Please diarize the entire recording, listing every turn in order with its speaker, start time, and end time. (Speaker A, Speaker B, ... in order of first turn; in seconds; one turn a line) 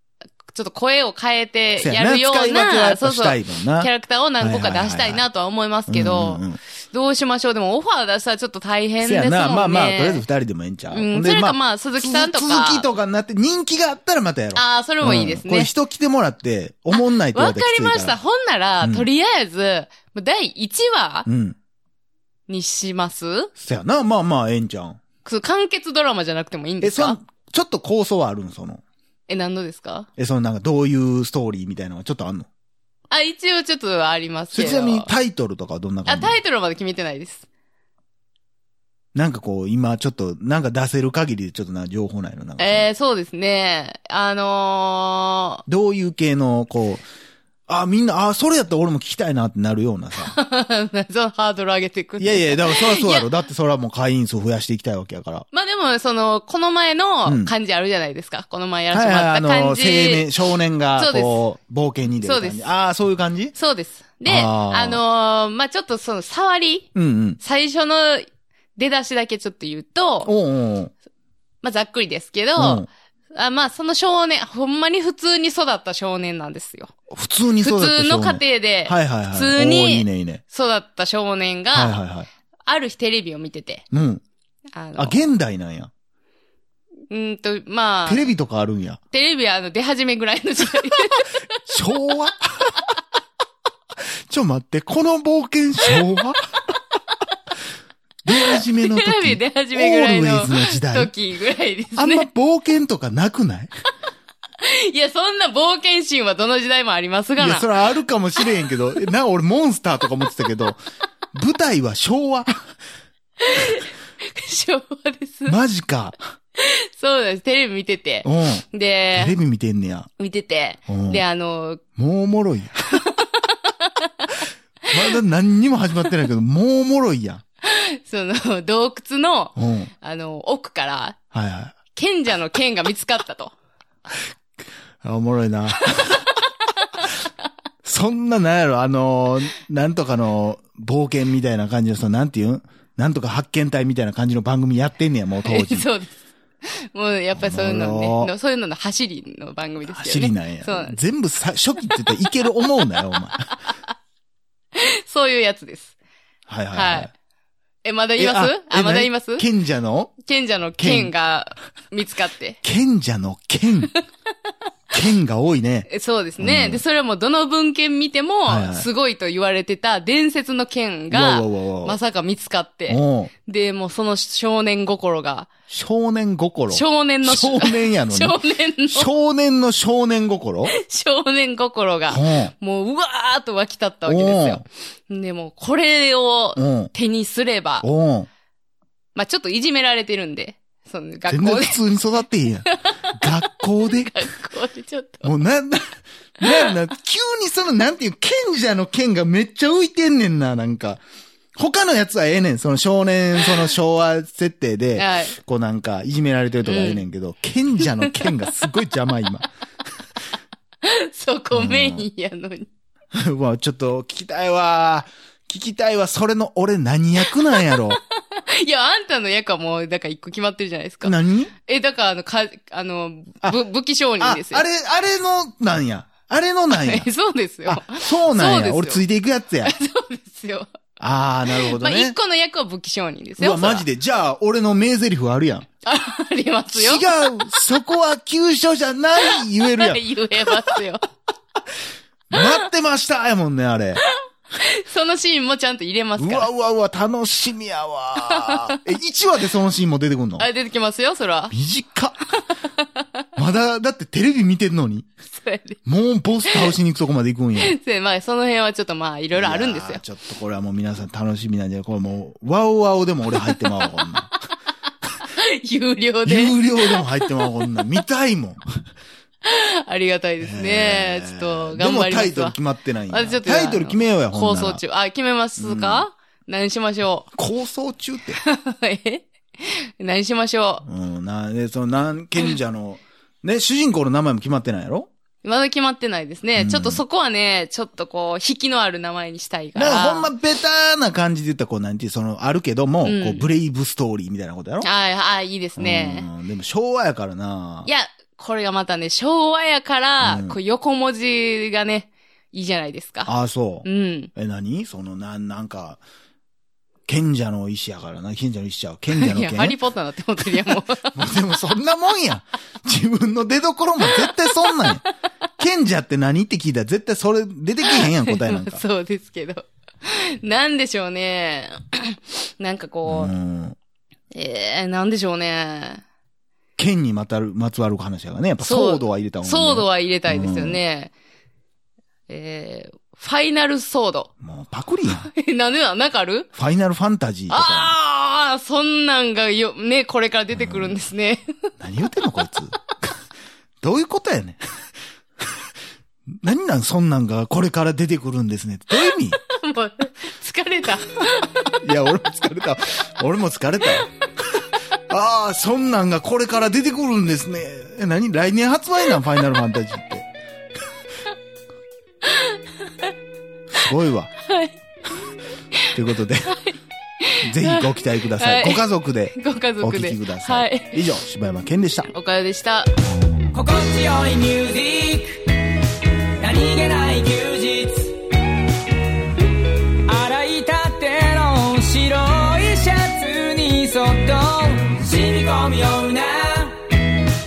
Speaker A: 0.4-10.2
Speaker B: 1.8-5.2
Speaker B: 5.9-6.6
Speaker B: 9.0-18.2
Speaker A: 10.9-12.9
Speaker A: 14.6-15.7
Speaker A: 16.9-21.3
Speaker B: 18.8-19.1
Speaker B: 21.3-21.6
Speaker A: 22.5-23.5
Speaker B: 23.6-25.0
Speaker A: 25.2-27.2
Speaker B: 26.8-28.8
Speaker A: 29.3-30.1
Speaker B: 30.2-32.5
Speaker A: 33.1-35.1
Speaker B: 34.5-36.4
Speaker A: 36.1-37.5
Speaker B: 39.1-42.9
Speaker A: 42.6-45.6
Speaker B: 45.7-47.0
Speaker B: 47.7-50.4
Speaker A: 50.2-53.3
Speaker B: 52.2-55.5
Speaker A: 55.5-60.3
Speaker B: 57.3-57.5
Speaker B: 58.9-63.5
Speaker A: 61.0-61.4
Speaker A: 62.2-62.7
Speaker A: 63.5-66.9
Speaker B: 64.2-65.0
Speaker B: 67.0-67.4
Speaker A: 67.4-70.3
Speaker B: 70.2-70.9
Speaker A: 71.6-76.9
Speaker B: 72.6-72.9
Speaker B: 77.1-80.4
Speaker A: 77.6-82.0
Speaker B: 81.7-82.3
Speaker A: 82.7-83.8
Speaker B: 83.9-84.2
Speaker A: 84.8-85.3
Speaker B: 85.0-85.9
Speaker A: 87.1-88.3
Speaker B: 88.1-89.0
Speaker A: 89.1-91.6
Speaker B: 91.7-92.8
Speaker B: 94.3-96.5
Speaker B: 98.2-101.1
Speaker A: 98.3-102.3
Speaker B: 102.0-103.7
Speaker A: 104.6-107.7
Speaker B: 107.4-110.8
Speaker B: 111.3-112.7
Speaker A: 113.4-115.6
Speaker B: 115.5-116.2
Speaker A: 116.6-119.4
Speaker B: 118.2-120.1
Speaker A: 120.2-121.8
Speaker B: 120.9-121.2
Speaker B: 122.0-123.1
Speaker A: 123.0-124.5
Speaker B: 124.9-127.4
Speaker A: 127.6-131.2
Speaker B: 129.6-129.9
Speaker B: 131.3-131.8
Speaker A: 131.9-133.5
Speaker B: 135.0-136.3
Speaker B: 137.8-145.9
Speaker A: 145.4-146.1
Speaker A: 146.6-151.0
Speaker B: 147.3-148.3
Speaker B: 149.9-153.6
Speaker A: 154.8-155.9
Speaker B: 156.5-157.1
Speaker A: 156.7-157.1
Speaker A: 157.8-159.5
Speaker B: 158.2-160.2
Speaker A: 160.2-162.6
Speaker B: 160.8-161.1
Speaker B: 162.6-163.9
Speaker B: 164.9-166.8
Speaker A: 165.9-175.5
Speaker B: 168.5-168.9
Speaker B: 171.1-172.0
Speaker B: 172.9-173.3
Speaker B: 175.7-180.7
Speaker A: 176.7-179.1
Speaker A: 180.7-187.9
Speaker B: 182.1-182.5
Speaker B: 184.1-184.6
Speaker B: 186.6-186.9
Speaker B: 187.8-188.3
Speaker A: 189.2-191.9
Speaker B: 191.3-194.3
Speaker A: 192.7-193.0
Speaker A: 193.8-195.3
Speaker B: 195.2-201.0
Speaker A: 196.4-196.7
Speaker B: 201.6-209.5
Speaker A: 205.0-205.3
Speaker A: 206.7-207.0
Speaker A: 207.8-208.3
Speaker A: 210.8-212.7
Speaker B: 211.5-212.1
Speaker B: 213.1-218.0
Speaker A: 217.5-224.6
Speaker B: 221.0-221.5
Speaker B: 224.2-227.1
Speaker A: 226.7-229.0
Speaker B: 227.7-229.7
Speaker A: 229.6-230.7
Speaker B: 231.0-232.2
Speaker A: 231.5-233.8
Speaker B: 233.4-235.7
Speaker A: 235.8-237.2
Speaker B: 236.7-240.7
Speaker A: 239.2-241.0
Speaker B: 242.3-244.0
Speaker A: 244.1-246.5
Speaker B: 246.2-250.5
Speaker A: 248.3-248.8
Speaker A: 250.4-251.5
Speaker B: 251.5-252.2
Speaker B: 253.4-255.1
Speaker A: 255.3-255.8
Speaker B: 255.8-257.8
Speaker A: 256.5-256.8
Speaker A: 257.6-260.0
Speaker B: 259.4-264.3
Speaker A: 263.4-264.1
Speaker A: 265.3-267.9
Speaker B: 266.2-268.6
Speaker A: 269.4-272.6
Speaker B: 270.4-274.8
Speaker A: 273.1-277.3
Speaker B: 275.6-276.1
Speaker B: 277.4-278.4
Speaker A: 278.4-280.9
Speaker B: 280.9-285.1
Speaker A: 285.4-290.3
Speaker B: 286.6-287.0
Speaker B: 289.8-294.9
Speaker A: 293.0-293.5
Speaker A: 294.8-296.3
Speaker B: 295.8-297.9
Speaker A: 297.9-303.3
Speaker B: 300.2-300.6
Speaker B: 303.2-306.0
Speaker A: 303.9-304.3
Speaker B: 307.1-309.8
Speaker A: 309.1-311.1
Speaker B: 310.5-315.0
Speaker A: 314.0-315.0
Speaker B: 315.6-318.8
Speaker A: 317.9-323.3
Speaker B: 323.1-323.8
Speaker A: 324.3-326.0
Speaker B: 326.8-330.8
Speaker A: 328.6-331.1
Speaker A: 332.3-334.3
Speaker B: 334.4-335.3
Speaker A: 335.1-336.5
Speaker B: 336.6-337.9
Speaker A: 337.5-341.7
Speaker B: 340.5-340.9
Speaker B: 341.8-343.1
Speaker B: 343.8-344.6
Speaker B: 346.4-349.4
Speaker A: 349.1-351.7
Speaker B: 351.8-354.1
Speaker B: 355.1-360.3
Speaker A: 362.2-363.1
Speaker B: 363.7-364.3
Speaker A: 364.4-364.8
Speaker B: 365.9-366.6
Speaker A: 366.5-371.0
Speaker B: 367.4-372.1
Speaker A: 372.1-372.9
Speaker C: 373.5-375.6
Speaker C: 376.4-378.2
Speaker C: 380.1-386.9